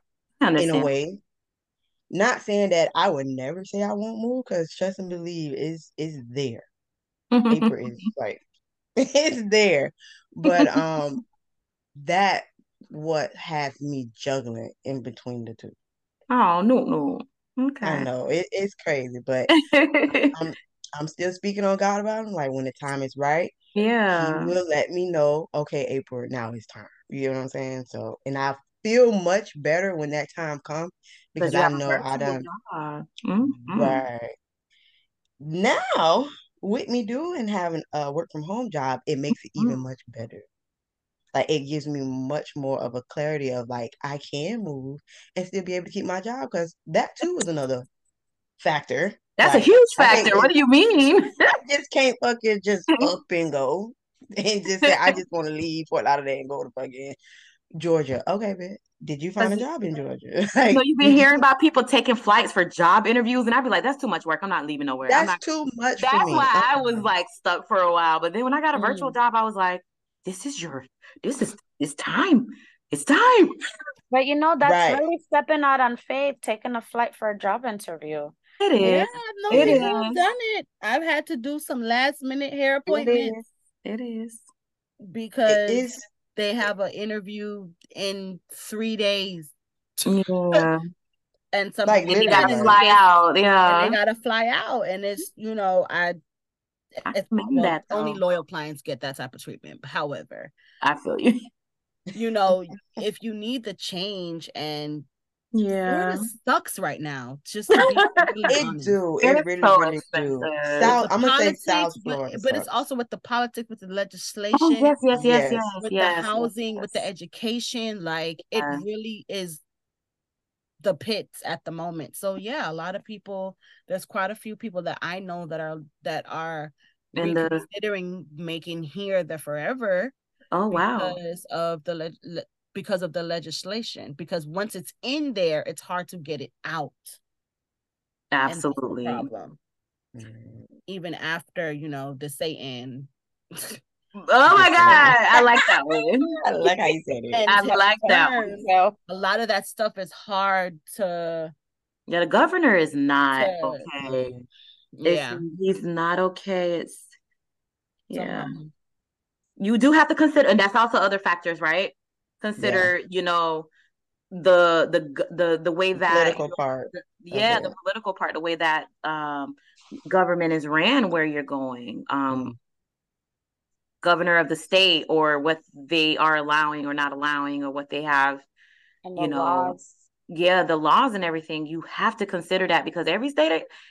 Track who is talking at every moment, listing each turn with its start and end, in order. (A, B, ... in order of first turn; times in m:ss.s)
0:00.4-0:00.9 A
0:00.6-0:01.2 B
0:02.1-0:06.6 B
0:07.3-0:07.7 A
0:07.5-0:08.4 B
0:09.0-0:11.2 B
0:10.4-0:11.0 A
0:12.0-0:15.7 B
0:16.3-0:18.1 A
0:17.8-0:19.5 B
0:19.5-0:20.3 A
0:20.3-0:23.6 B
0:23.7-0:24.5 A
0:24.1-0:32.5 B
0:31.4-0:34.0 A
0:33.5-0:34.3 B
0:35.4-0:40.4 B
0:39.6-0:39.8 A
0:41.3-0:47.9 B
0:48.6-0:50.5 B
0:49.4-0:51.5 A
0:51.6-0:57.2 B
0:54.8-0:55.2 A
0:57.8-1:01.4 B
0:59.4-0:59.6 A
1:00.7-1:05.4 A
1:05.1-1:07.1 B
1:06.0-1:13.5 A
1:08.8-1:09.1 C
1:14.1-1:18.3 C
1:14.6-1:15.0 B
1:18.6-1:20.2 A
1:18.8-1:23.4 D
1:19.5-1:19.9 B
1:22.9-1:24.4 A
1:25.1-1:30.7 D
1:25.5-1:26.0 B
1:30.0-1:30.8 A
1:31.5-1:33.0 D
1:31.8-1:32.8 B
1:32.1-1:34.0 A
1:33.6-1:36.2 D
1:37.0-1:40.5 D
1:37.1-1:38.2 A
1:40.8-1:41.3 A
1:42.1-1:45.1 D
1:45.5-1:46.3 A
1:45.8-1:49.0 D
1:47.8-1:48.6 A
1:48.5-1:52.8 B
1:49.2-1:50.9 A
1:50.8-1:55.0 D
1:54.6-1:57.0 A
1:55.1-1:55.7 B
1:55.8-1:59.6 D
1:58.5-1:58.8 A
2:00.8-2:10.1 D
2:07.1-2:07.6 A
2:10.5-2:11.2 A
2:10.7-2:17.2 D
2:18.3-2:19.3 A
2:18.5-2:19.6 D
2:20.1-2:20.7 B
2:20.9-2:23.8 D
2:24.3-2:26.3 A
2:24.5-2:25.2 B
2:24.8-2:25.1 D
2:26.4-2:27.4 B
2:27.3-2:31.5 D
2:27.5-2:28.3 A
2:28.0-2:28.9 C
2:32.1-2:34.3 A
2:33.4-2:33.9 D
2:34.0-2:34.4 B
2:34.9-2:35.4 D
2:35.0-2:37.1 A
2:38.1-2:38.5 A
2:38.1-2:38.7 D
2:39.6-2:43.7 A
2:42.6-2:42.9 B
2:44.3-2:52.5 A
2:45.9-2:47.7 B
2:52.3-2:52.6 B
2:54.0-2:58.5 A
2:59.0-2:59.9 C
2:59.2-3:03.6 A